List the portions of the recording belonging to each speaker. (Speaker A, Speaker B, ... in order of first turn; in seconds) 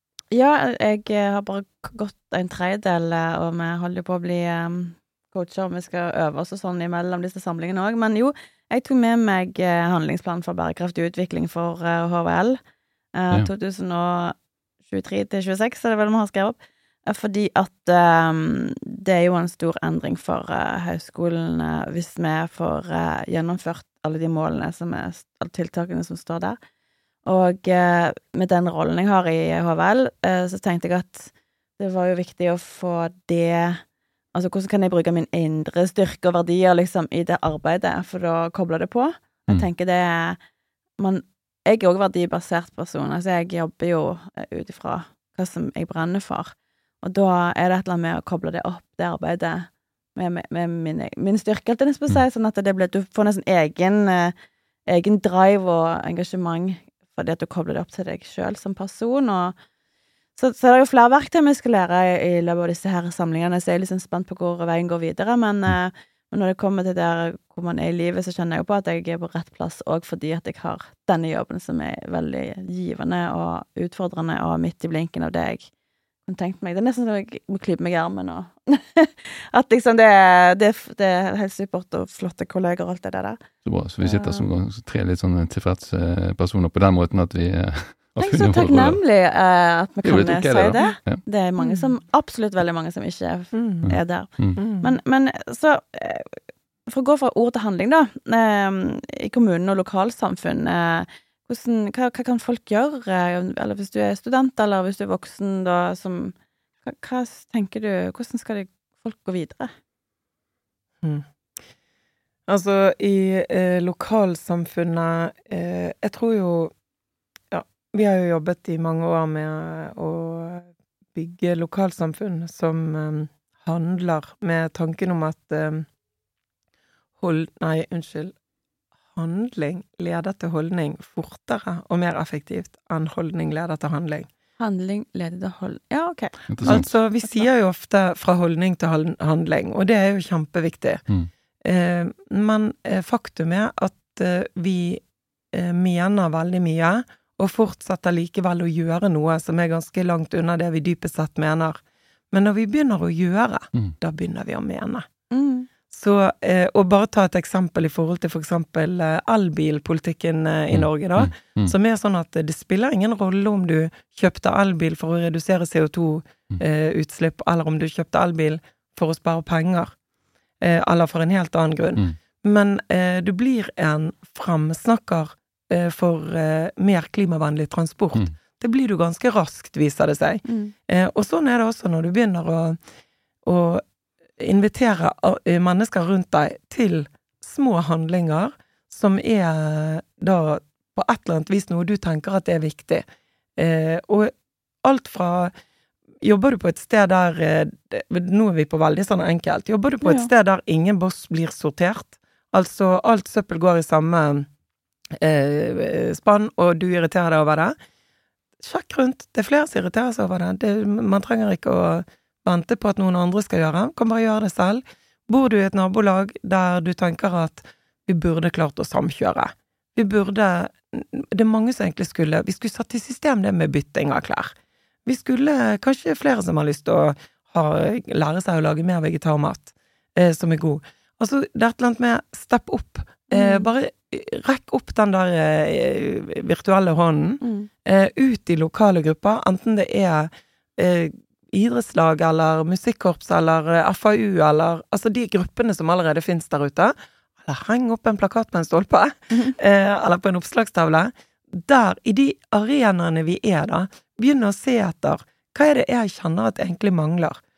Speaker A: 0.3-12.6, 13.1-26.6, 27.2-33.8, 34.3-40.4, 41.0-54.3, 54.9-59.5, 60.4-75.7, 76.3-83.4, 84.0-84.5, 88.2-109.7, 134.6-137.4, 155.3-155.7, 180.4-180.7, 200.0-200.3, 233.3-233.7, 237.4-237.7
Speaker B: 83.6-89.0, 90.0-91.2, 93.8-94.6, 136.5-136.9, 160.7-161.7
Speaker C: 91.6-91.9, 93.5-93.9, 94.6-95.0, 112.5-116.7, 117.5-125.8, 127.2-128.3, 129.1-134.3, 136.6-141.0, 141.6-151.8, 152.3-155.1, 155.9-169.9, 170.6-182.8, 183.4-183.8, 184.4-193.0, 193.6-194.3, 194.8-195.5, 196.2-204.5, 205.2-207.7, 208.6-224.5, 225.1-257.4